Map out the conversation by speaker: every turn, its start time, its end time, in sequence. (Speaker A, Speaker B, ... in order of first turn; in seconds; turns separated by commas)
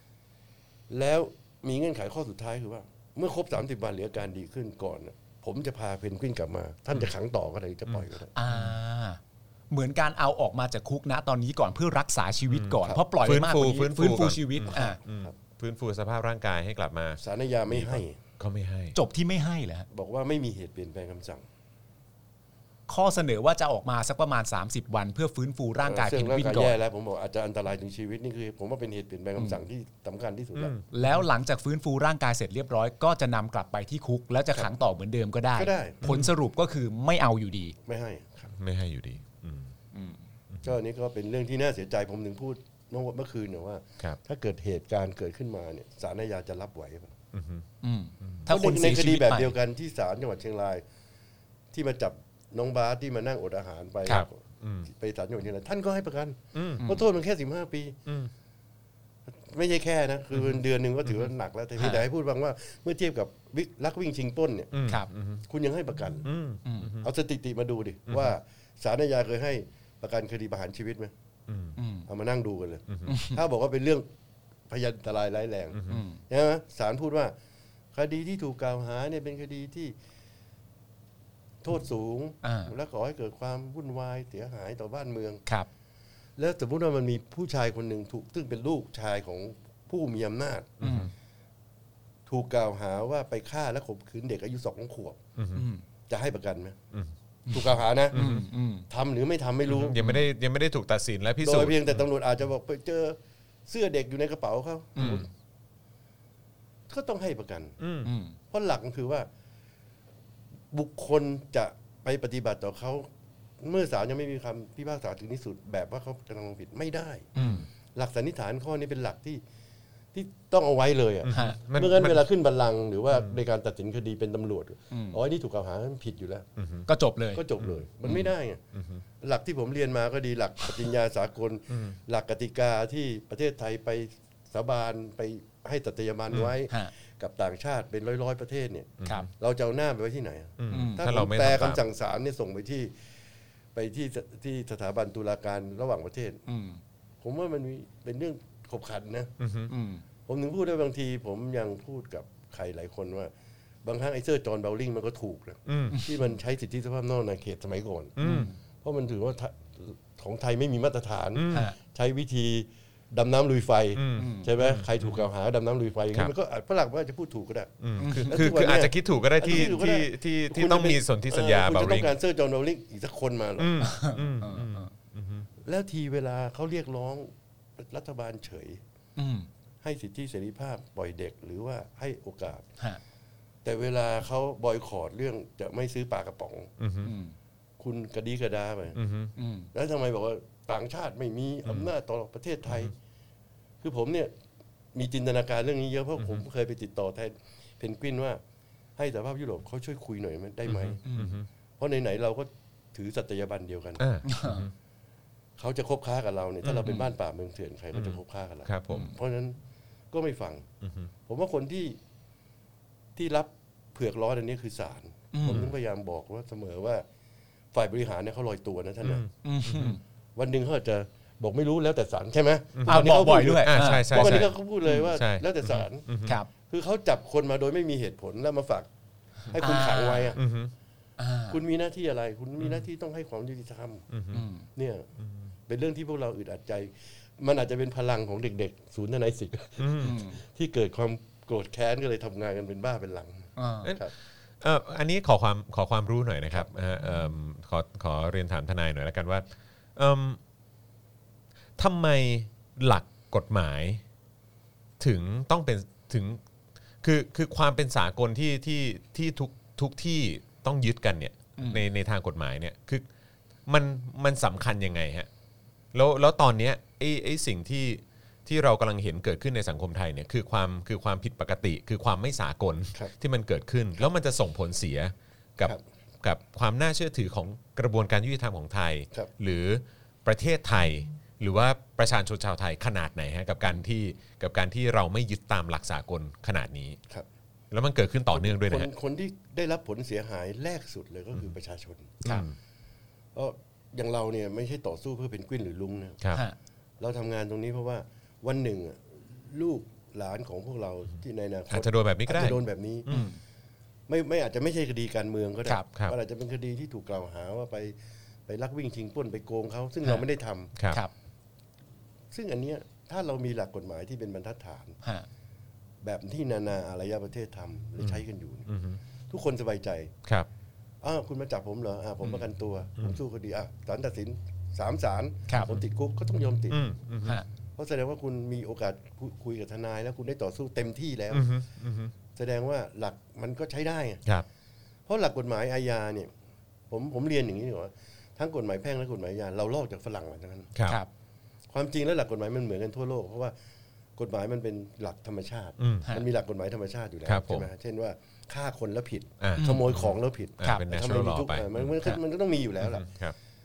Speaker A: 0.9-8.3, Speaker B: 7.9-8.7, Speaker C: 8.3-15.0, Speaker B: 12.5-18.9, Speaker A: 14.7-15.3, Speaker A: 17.2-18.2, Speaker C: 18.9-19.9, Speaker A: 19.9-21.4, Speaker C: 22.9-26.8, Speaker A: 25.8-30.8, Speaker B: 30.6-30.8, Speaker C: 30.9-37.7, Speaker A: 35.5-36.0, Speaker B: 36.0-36.3, Speaker A: 37.9-38.5, Speaker B: 38.5-39.7, Speaker C: 39.9-40.2, Speaker A: 40.6-47.1, Speaker B: 47.3-47.6, Speaker C: 47.8-49.5, Speaker A: 48.5-50.8, Speaker A: 51.7-54.4, Speaker B: 54.6-54.9, Speaker A: 54.9-58.0, Speaker B: 56.5-56.8, Speaker A: 59.4-64.7, Speaker C: 61.8-62.0, Speaker B: 64.7-65.4, Speaker A: 65.5-66.3, Speaker B: 66.2-67.1, Speaker C: 66.6-66.9, Speaker A: 67.0-71.1, Speaker B: 68.1-68.3, Speaker B: 71.5-71.8, Speaker C: 71.8-72.1, Speaker A: 72.1-74.0, Speaker C: 73.1-73.4, Speaker A: 74.7-77.3, Speaker B: 75.7-76.0, Speaker C: 75.9-76.2, Speaker A: 77.9-79.9, Speaker A: 81.6-85.4, Speaker C: 82.4-82.7, Speaker A: 86.4-91.0, Speaker B: 90.8-91.1, Speaker C: 90.8-91.1, Speaker A: 92.3-95.2, Speaker B: 95.4-95.7, Speaker C: 95.5-95.8, Speaker A: 96.1-96.8, Speaker C: 97.5-98.9, Speaker A: 97.5-98.2, Speaker B: 98.1-98.5, Speaker A: 98.9-100.0, Speaker B: 99.7-102.0, Speaker A: 101.4-105.3, Speaker C: 104.9-105.2, Speaker A: 106.9-107.8, Speaker B: 107.8-108.1, Speaker C: 108.0-108.3, Speaker A: 108.5-109.3, Speaker A: 110.7-113.1, Speaker A: 113.6-117.3, Speaker C: 117.3-117.7, Speaker A: 117.9-119.4, Speaker A: 120.1-126.5, Speaker B: 121.2-122.2, Speaker C: 121.3-121.6, Speaker C: 124.9-125.2, Speaker B: 126.6-126.9, Speaker C: 126.9-127.4, Speaker A: 127.3-128.6, Speaker B: 127.6-129.0, Speaker A: 129.2-142.9, Speaker B: 131.7-131.9, Speaker C: 136.3-136.9, Speaker B: 139.0-139.3, Speaker B: 140.6-141.8, Speaker C: 140.7-141.0, Speaker A: 143.7-146.4, Speaker C: 146.5-146.8, Speaker A: 147.2-149.3, Speaker B: 149.4-149.7, Speaker C: 149.7-150.0, Speaker A: 150.2-153.3, Speaker A: 153.8-158.2, Speaker B: 155.7-156.0, Speaker C: 155.9-156.1, Speaker B: 158.2-158.5, Speaker C: 158.2-158.6, Speaker A: 158.8-173.8, Speaker B: 161.3-161.7, Speaker B: 163.9-165.2, Speaker C: 164.2-164.5, Speaker B: 167.8-172.1, Speaker C: 168.0-168.4, Speaker B: 173.6-175.5, Speaker C: 173.8-174.9, Speaker A: 175.6-178.8, Speaker C: 179.2-179.5, Speaker A: 179.8-182.7, Speaker A: 183.6-186.7, Speaker B: 186.8-187.1, Speaker C: 187.0-187.3, Speaker A: 187.8-189.0, Speaker B: 188.9-189.3, Speaker C: 189.4-189.7, Speaker A: 189.7-192.9, Speaker A: 193.8-194.3, Speaker A: 194.9-198.4, Speaker A: 199.0-201.0, Speaker B: 200.7-201.5, Speaker C: 201.0-201.4, Speaker A: 201.8-204.0, Speaker B: 204.0-204.7, Speaker C: 204.2-204.7, Speaker A: 205.6-209.6, Speaker B: 206.6-206.9, Speaker C: 206.8-207.1, Speaker B: 207.9-209.1, Speaker A: 210.1-210.7, Speaker B: 210.8-211.1, Speaker A: 211.3-212.0, Speaker A: 213.2-217.0, Speaker C: 215.3-215.7, Speaker B: 215.5-215.7, Speaker A: 217.7-219.2, Speaker B: 219.0-220.0, Speaker C: 219.4-220.0, Speaker A: 220.3-228.9, Speaker B: 222.8-226.3, Speaker C: 222.8-225.1, Speaker C: 226.2-226.5, Speaker A: 229.5-230.4, Speaker C: 229.6-230.4, Speaker B: 230.3-230.7, Speaker C: 231.2-231.6, Speaker A: 231.5-234.1, Speaker B: 234.1-234.4, Speaker C: 234.3-234.7, Speaker A: 234.7-235.1, Speaker A: 235.7-244.1, Speaker B: 239.8-240.2, Speaker C: 240.0-240.4, Speaker C: 243.6-243.9, Speaker B: 244.6-250.4, Speaker B: 251.8-254.0, Speaker B: 255.0-256.4, Speaker B: 257.0-263.0, Speaker C: 261.6-261.8, Speaker B: 263.6-265.3, Speaker B: 265.9-287.0, Speaker B: 287.7-288.9, Speaker A: 288.3-292.2, Speaker B: 292.2-292.5, Speaker A: 293.3-296.2, Speaker A: 297.0-303.1, Speaker B: 301.7-303.3, Speaker C: 303.1-303.4, Speaker A: 304.1-307.9, Speaker A: 308.5-310.7, Speaker B: 310.8-311.0, Speaker A: 312.3-315.0, Speaker A: 316.0-318.7, Speaker B: 318.0-319.0, Speaker A: 319.3-320.1, Speaker A: 321.0-326.9, Speaker C: 325.5-325.7, Speaker B: 326.7-327.4, Speaker A: 327.8-331.5, Speaker B: 331.3-332.1, Speaker A: 332.4-334.2, Speaker A: 335.1-336.3, Speaker A: 336.9-340.7, Speaker B: 340.7-341.0, Speaker A: 341.7-343.5, Speaker A: 344.2-353.1, Speaker B: 345.8-346.1, Speaker B: 347.2-347.7, Speaker B: 349.4-352.0, Speaker C: 349.6-349.9, Speaker B: 352.8-353.3